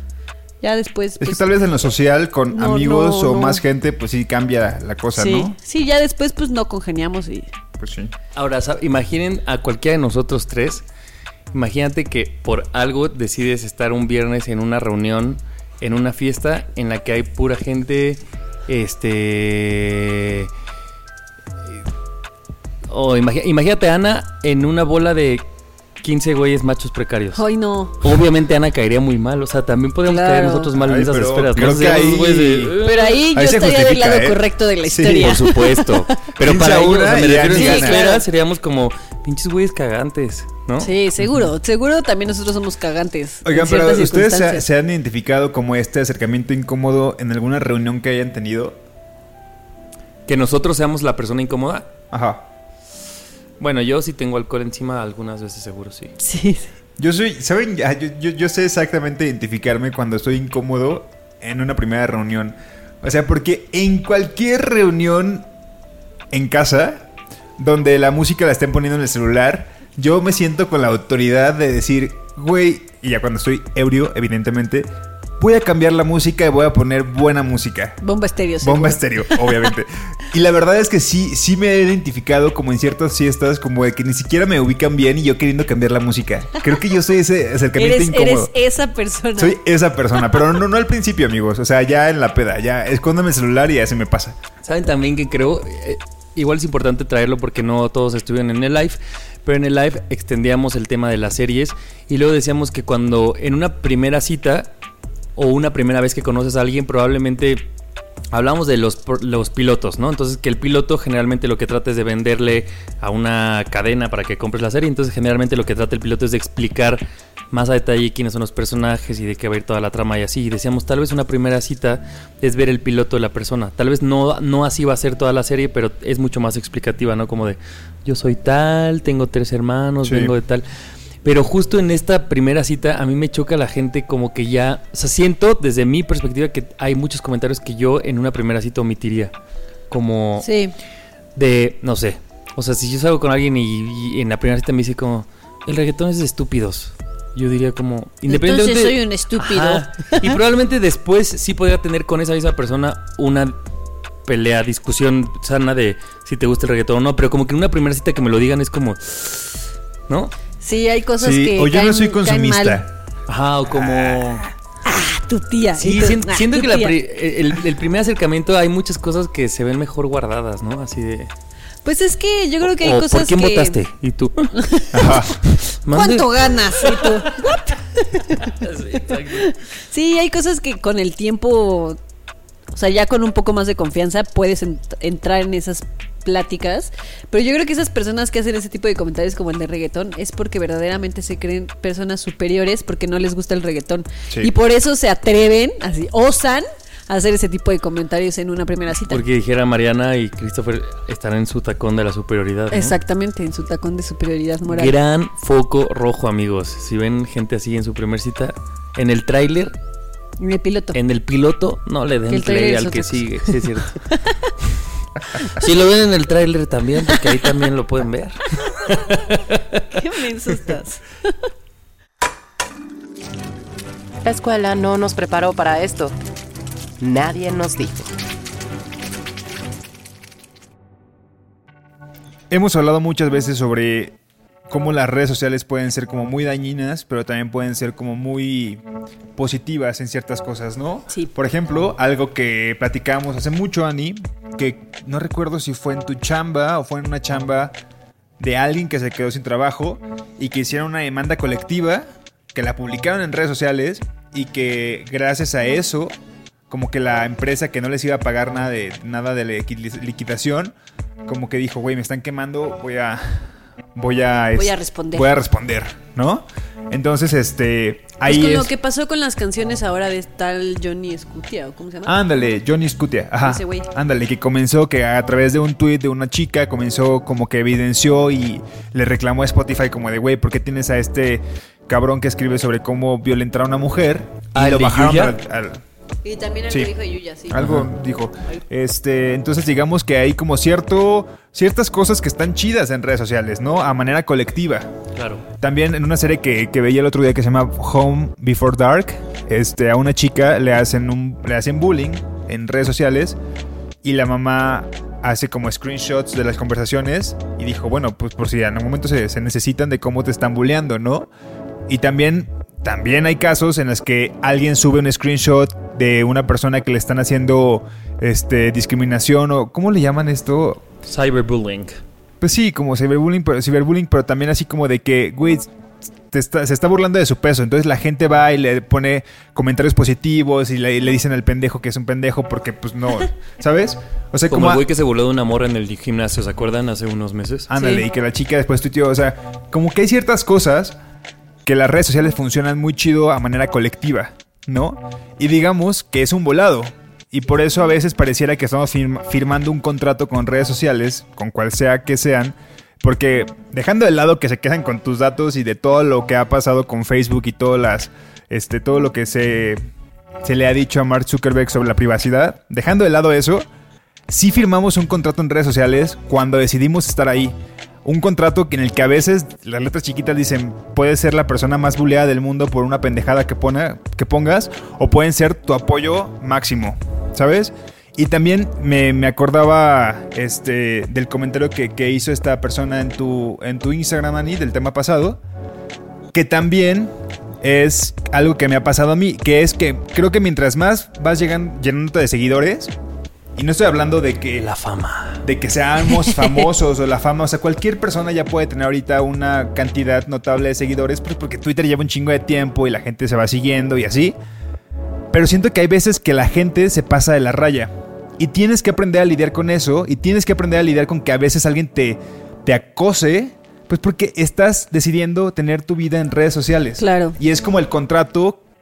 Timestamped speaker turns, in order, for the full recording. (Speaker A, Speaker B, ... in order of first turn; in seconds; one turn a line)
Speaker A: 0.6-1.5
Speaker B: 1.2-5.5
Speaker A: 2.5-3.6
Speaker A: 5.2-7.5
Speaker B: 7.8-8.1
Speaker C: 8.3-10.8
Speaker C: 11.5-20.5
Speaker C: 22.9-25.4
Speaker C: 26.0-27.4
Speaker A: 27.3-28.0
Speaker C: 28.0-33.2
Speaker A: 30.0-30.7
Speaker B: 30.7-35.4
Speaker A: 32.8-36.3
Speaker C: 35.0-40.9
Speaker B: 36.4-38.0
Speaker A: 37.5-38.2
Speaker A: 40.8-44.7
Speaker B: 41.2-41.5
Speaker B: 43.4-48.8
Speaker C: 50.3-51.9
Speaker B: 52.1-52.4
Speaker C: 53.6-56.1
Speaker A: 56.2-56.7
Speaker B: 57.0-65.5
Speaker B: 66.3-67.1
Speaker B: 67.6-78.0
Speaker A: 78.0-79.7
Speaker B: 78.6-88.5
Speaker A: 87.8-89.6
Speaker B: 89.4-94.4
Speaker C: 94.6-104.7
Speaker C: 105.4-107.7
Speaker C: 108.3-130.6
Speaker B: 130.0-130.3
Speaker C: 131.2-139.3
Speaker C: 139.9-140.5
Speaker A: 140.4-140.7
Speaker C: 141.3-153.6
Speaker A: 148.3-150.3
Speaker C: 154.3-159.5
Speaker A: 160.6-162.8
Speaker B: 161.2-162.9
Speaker C: 163.3-164.5
Speaker B: 163.7-164.4
Speaker A: 164.8-166.9
Speaker C: 165.8-171.3
Speaker A: 171.8-173.8
Speaker C: 172.6-174.5
Speaker A: 174.6-182.0
Speaker B: 174.9-175.4
Speaker C: 175.5-177.5
Speaker C: 178.4-179.5
Speaker A: 182.7-199.2
Speaker C: 199.1-203.0
Speaker A: 202.7-204.9
Speaker C: 204.7-209.8
Speaker A: 210.4-211.0
Speaker C: 210.9-214.0
Speaker A: 212.3-213.6
Speaker A: 214.1-214.5
Speaker C: 215.5-219.8
Speaker A: 219.9-221.3
Speaker D: 224.2-226.2
Speaker D: 227.0-228.1
Speaker B: 232.5-234.2
Speaker B: 234.7-238.8
Speaker B: 239.4-247.7
Speaker B: 248.4-256.1
Speaker B: 256.7-260.8
Speaker B: 261.3-268.7
Speaker A: 264.6-265.3
Speaker A: 268.2-272.2
Speaker B: 272.1-285.8
Speaker A: 273.4-273.9
Speaker C: 284.5-285.4
Speaker A: 286.2-287.6
Speaker B: 287.5-294.9
Speaker C: 287.6-287.9
Speaker C: 295.2-295.4
Speaker B: 295.6-303.4
Speaker B: 304.0-311.3
Speaker B: 311.9-320.8
Speaker C: 321.1-322.0
Speaker B: 322.4-325.7
Speaker B: 326.3-334.9
Speaker C: 334.5-337.7
Speaker B: 337.7-341.0
Speaker A: 337.8-338.1
Speaker B: 341.6-359.9
Speaker B: 360.4-363.7
Speaker B: 364.3-385.4
Speaker B: 386.3-392.9
Speaker B: 393.6-394.7
Speaker C: 394.6-395.4
Speaker B: 395.4-404.4
Speaker B: 405.3-418.6
Speaker A: 417.0-417.4